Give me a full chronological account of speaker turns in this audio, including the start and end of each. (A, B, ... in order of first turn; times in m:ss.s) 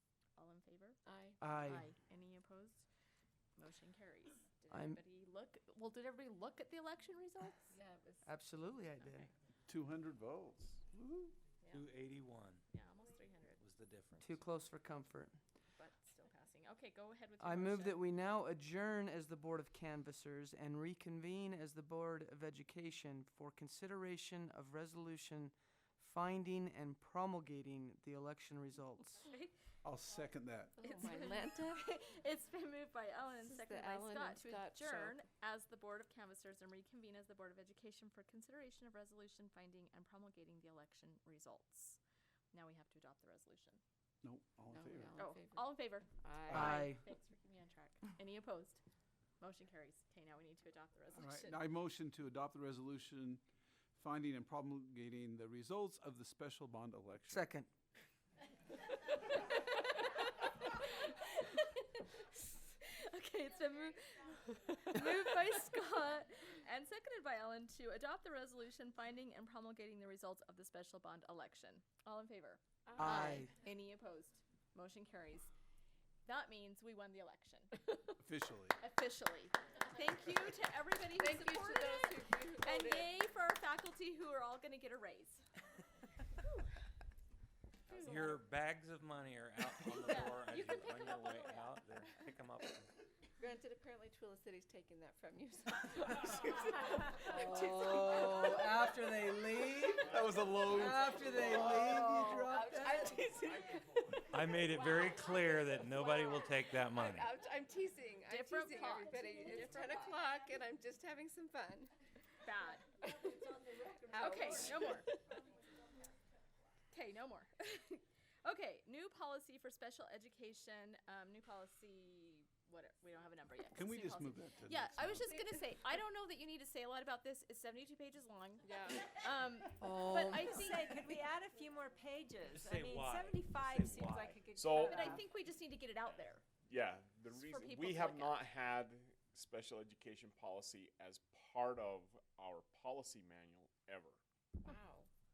0:00.4-0:02.9 A
0:01.1-0:01.4 B
0:01.4-0:01.9 C
0:03.6-0:07.8 A
0:04.7-0:05.0 C
0:07.7-0:08.1 B
0:08.2-0:09.3 C
0:09.0-0:09.3 A
0:09.7-0:11.3 D
0:11.6-0:11.9 A
0:11.7-0:12.6 E
0:12.7-0:13.6 A
0:13.6-0:14.4 E
0:14.2-0:15.4 C
0:15.8-0:18.0 A
0:17.4-0:29.2 C
0:29.3-0:29.5 A
0:29.8-0:30.8 D
0:30.8-0:31.9 B
0:30.8-0:42.0 A
0:33.4-0:35.2 B
0:42.5-0:43.8 A
0:44.2-0:45.2 D
0:44.7-0:46.9 B
0:45.2-0:48.8 A
0:46.5-0:47.0 C
0:49.4-0:51.6 A
0:51.2-0:53.4 D
0:54.0-0:57.5 D
0:57.3-0:57.7 C
0:59.3-1:15.5 A
1:12.9-1:13.4 B
1:13.0-1:13.5 C
1:16.3-1:18.2 A
1:18.2-1:18.8 D
1:18.8-1:25.4 A
1:21.2-1:23.1 B
1:27.9-1:28.4 A
1:28.0-1:32.9 E
1:30.0-1:32.0 A
1:33.4-1:38.9 B
1:37.2-1:43.2 C
1:40.0-1:41.5 D
1:41.2-1:44.3 B
1:44.3-1:47.4 E
1:44.7-1:45.2 A
1:46.1-1:51.9 B
1:48.3-1:50.2 A
1:52.4-1:52.9 A
1:53.0-1:55.2 B
1:54.1-1:55.1 A
1:56.9-2:11.2 A
2:03.7-2:05.3 D
2:08.6-2:09.1 B
2:09.8-2:10.7 C
2:10.4-2:15.2 F
2:12.5-2:14.4 E
2:14.6-2:15.2 G
2:14.7-2:16.4 A
2:16.6-2:24.2 G
2:17.3-2:18.4 A
2:24.6-2:25.1 B